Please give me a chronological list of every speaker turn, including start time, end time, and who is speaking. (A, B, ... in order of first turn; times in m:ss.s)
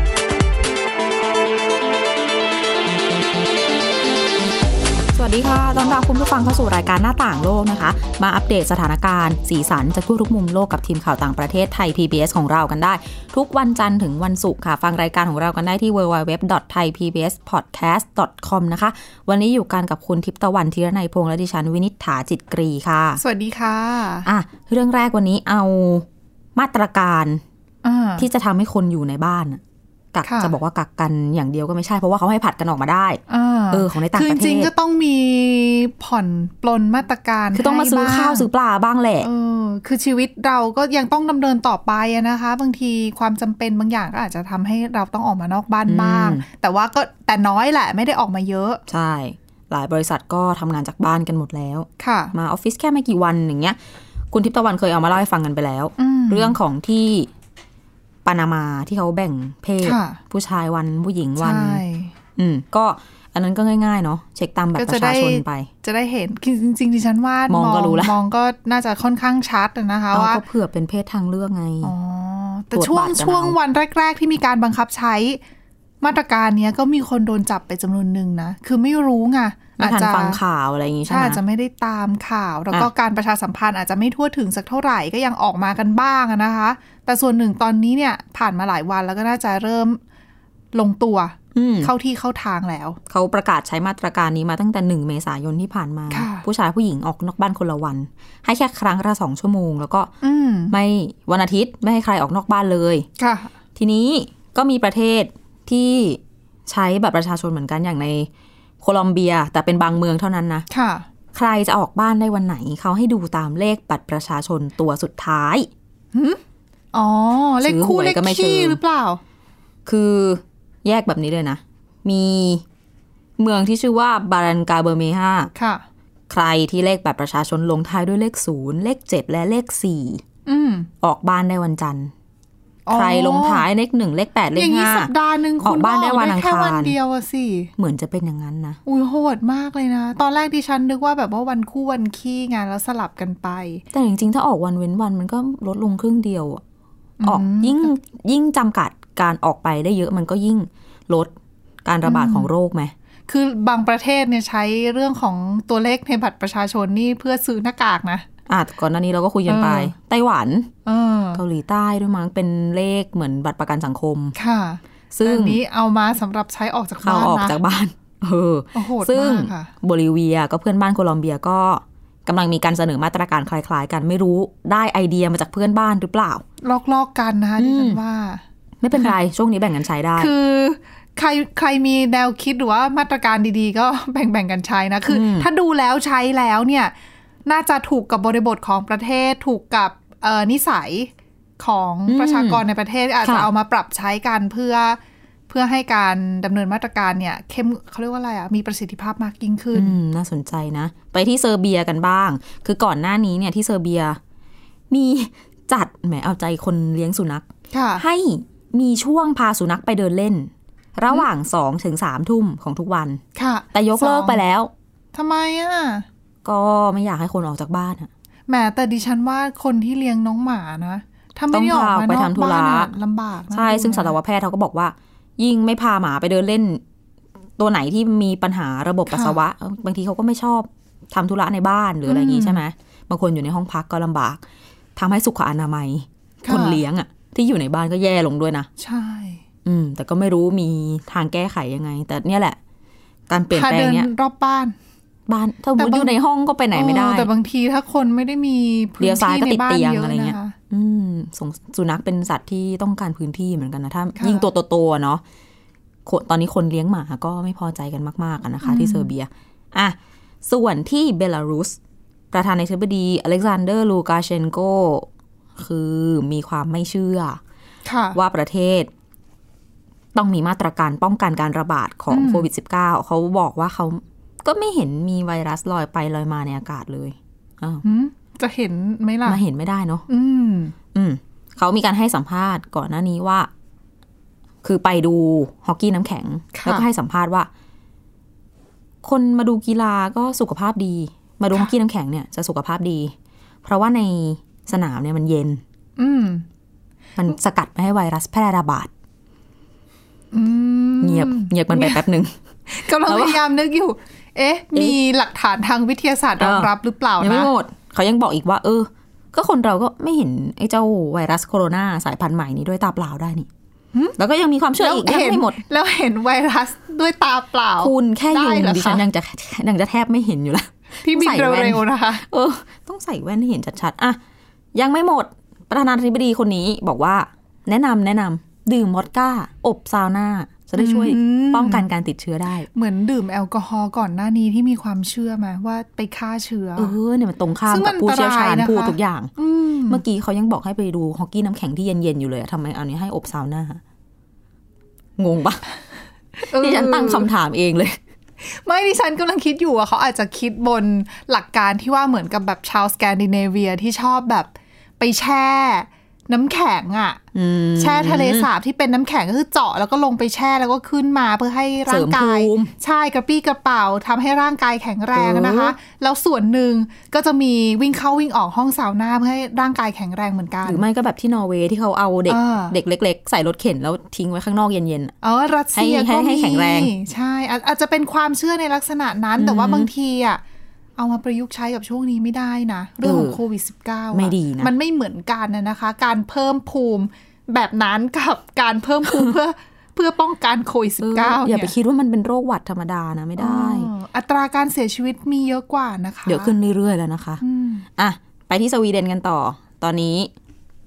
0:05.1-0:23.2 A
0:23.2-0:24.3 B
0:24.2-0:27.4 A
0:27.8-0:28.3 B
0:28.2-0:29.6 A
0:30.1-0:34.7 A
0:30.2-0:30.5 B
0:33.3-0:38.5 B
0:37.5-0:39.3 A
0:39.2-0:48.8 B
0:45.8-0:46.4 A
0:48.9-0:53.8 A
0:52.0-0:52.3 B
0:54.3-0:57.3 A
0:56.0-0:56.6 B
0:58.2-1:01.8 A
0:59.8-1:00.2 B
1:01.4-1:02.1 B
1:02.4-1:05.7 A
1:04.8-1:10.4 B
1:07.5-1:08.1 A
1:10.1-1:11.9 A
1:11.8-1:15.4 B
1:12.7-1:13.6 A
1:16.0-1:20.4 B
1:19.8-1:21.4 A
1:21.1-1:30.0 B
1:30.7-1:33.0 B
1:31.5-1:31.9 A
1:33.1-1:40.1 A
1:36.1-1:36.4 B
1:40.2-1:40.7 B
1:40.7-1:43.1 A
1:43.2-1:43.5 B
1:43.8-1:48.3 A
1:48.8-1:50.7 A
1:50.7-1:51.0 B
1:51.3-1:55.7 A
1:56.1-1:56.4 B
1:56.9-1:59.2 B
1:57.6-1:58.8 A
1:59.8-2:02.6 A
2:03.4-2:05.5 A
2:05.5-2:05.8 B
2:06.3-2:10.2 A
2:10.4-2:10.9 B
2:11.0-2:12.1 A
2:12.8-2:13.6 B
2:12.9-2:15.1 A
2:14.5-2:17.7 B
2:15.6-2:17.0 A
2:17.8-2:18.8 A
2:18.8-2:23.8 B
2:23.9-2:26.6 A
2:27.2-2:27.9 B
2:27.2-2:31.3 A
2:31.8-2:32.9 A
2:32.0-2:32.5 B
2:33.3-2:38.2 B
2:38.5-2:40.7 A
2:39.5-2:39.9 B
2:40.8-2:41.4 B
2:41.3-2:44.4 A
2:44.4-2:47.6 B
2:45.1-2:45.6 A
2:47.0-2:56.4 A
2:48.7-2:49.7 B
2:56.6-2:58.4 B
2:57.6-2:58.0 A
2:58.8-3:00.3 A
3:00.2-3:06.9 B
3:05.1-3:05.5 A
3:07.4-3:20.0 B
3:12.1-3:12.6 A
3:13.2-3:13.5 A
3:19.7-3:24.2 A
3:24.9-3:33.2 A
3:27.7-3:28.0 B
3:33.4-3:34.4 B
3:33.7-3:34.7 A
3:35.1-3:36.0 B
3:36.4-3:38.1 A
3:38.5-3:44.2 B
3:41.5-3:42.9 A
3:43.5-3:46.8 A
3:47.6-3:54.4 A
3:49.1-3:49.4 B
3:52.0-3:52.6 B
3:55.0-3:58.7 A
3:56.4-3:56.8 B
3:58.8-3:59.4 B
3:59.6-4:02.6 A
4:03.3-4:04.1 A
4:03.5-4:04.7 B
4:05.3-4:07.3 A
4:05.8-4:06.1 B
4:06.7-4:10.5 B
4:09.0-4:15.2 A
4:14.2-4:14.4 B
4:16.0-4:21.8 A
4:18.6-4:19.1 B
4:22.3-4:27.4 A
4:27.8-4:28.2 B
4:28.1-4:28.9 A
4:30.1-4:37.8 A
4:32.1-4:32.5 B
4:37.8-4:39.4 B
4:39.2-4:40.0 A
4:40.1-4:40.7 B
4:40.9-4:43.5 A
4:44.6-4:47.5 A
4:46.5-4:46.8 B
4:49.0-4:55.6 A
4:56.0-4:56.4 B
4:57.2-4:58.9 A
5:00.3-5:02.0 B
5:01.0-5:02.4 A
5:02.7-5:07.5 B
5:03.0-5:03.4 A
5:06.4-5:13.5 A
5:14.2-5:15.6 A
5:14.8-5:19.0 B
5:17.8-5:24.2 A
5:21.0-5:22.2 B
5:24.7-5:32.7 A
5:30.8-5:31.9 B
5:32.7-5:36.9 B
5:36.8-5:39.3 A
5:37.7-5:40.0 B
5:39.9-5:43.8 A
5:45.2-5:45.6 A
5:46.4-5:47.3 B
5:46.5-5:48.0 A
5:48.4-5:57.2 B
5:57.3-5:58.5 A
5:57.8-6:10.8 B
6:01.8-6:02.7 A
6:05.1-6:05.8 A
6:10.6-6:15.1 A
6:12.3-6:12.7 B
6:15.2-6:20.4 B
6:15.7-6:16.9 A
6:19.4-6:19.9 A
6:21.0-6:31.7 B
6:23.0-6:23.4 A
6:24.1-6:24.7 A
6:29.0-6:29.3 A
6:31.0-6:33.9 A
6:33.4-6:36.5 B
6:36.2-6:37.4 A
6:37.4-6:37.8 B
6:38.0-6:40.3 A